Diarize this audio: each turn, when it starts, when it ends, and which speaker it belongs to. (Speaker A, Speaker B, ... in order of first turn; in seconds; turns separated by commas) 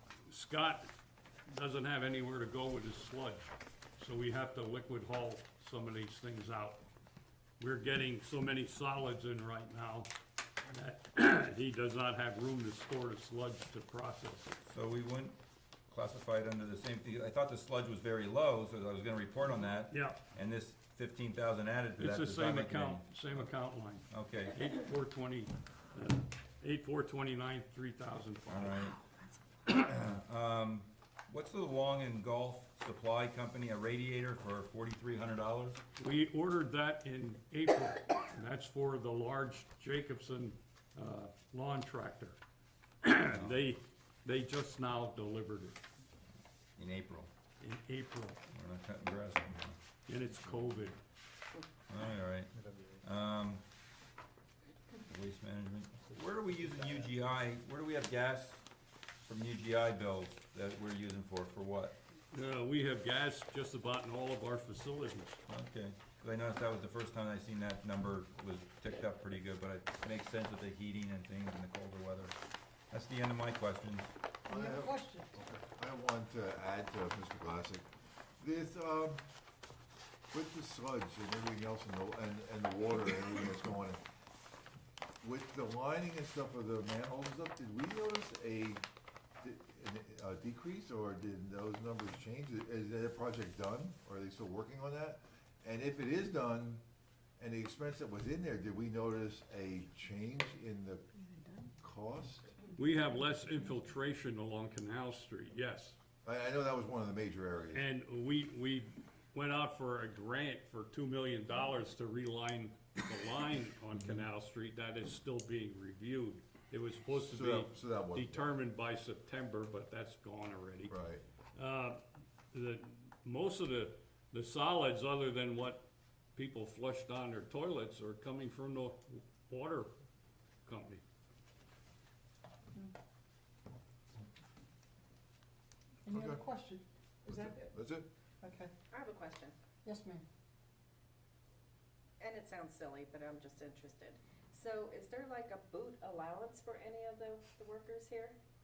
Speaker A: 0.3-0.9, Speaker A: 1.5-6.8, Speaker A: 7.6-10.1, Speaker A: 10.7-14.5, Speaker B: 14.6-15.4, Speaker B: 15.9-23.5, Speaker A: 19.9-20.2, Speaker A: 22.0-28.9, Speaker B: 24.1-24.7, Speaker B: 28.5-29.0, Speaker B: 29.7-35.8, Speaker A: 36.0-42.4, Speaker A: 43.0-45.8, Speaker B: 46.8-47.3, Speaker A: 47.6-48.4, Speaker B: 48.5-49.8, Speaker A: 50.1-51.0, Speaker B: 51.9-52.5, Speaker B: 53.0-53.6, Speaker B: 55.1-58.6, Speaker B: 59.2-62.0, Speaker A: 62.3-65.4, Speaker B: 65.5-72.3, Speaker B: 72.9-74.1, Speaker C: 74.5-75.4, Speaker D: 74.5-77.9, Speaker D: 78.4-79.2, Speaker D: 80.3-84.0, Speaker D: 85.2-88.8, Speaker D: 89.4-96.8, Speaker D: 97.4-102.6, Speaker A: 102.7-106.0, Speaker D: 106.2-107.8, Speaker A: 107.7-121.0, Speaker D: 117.2-118.5, Speaker D: 120.9-121.2, Speaker A: 121.5-125.8, Speaker A: 126.3-129.9, Speaker A: 130.7-131.0, Speaker C: 136.1-137.7, Speaker D: 136.1-136.4, Speaker D: 137.3-138.1, Speaker C: 138.4-138.7, Speaker E: 138.9-139.5, Speaker C: 139.8-140.2, Speaker E: 142.2-148.4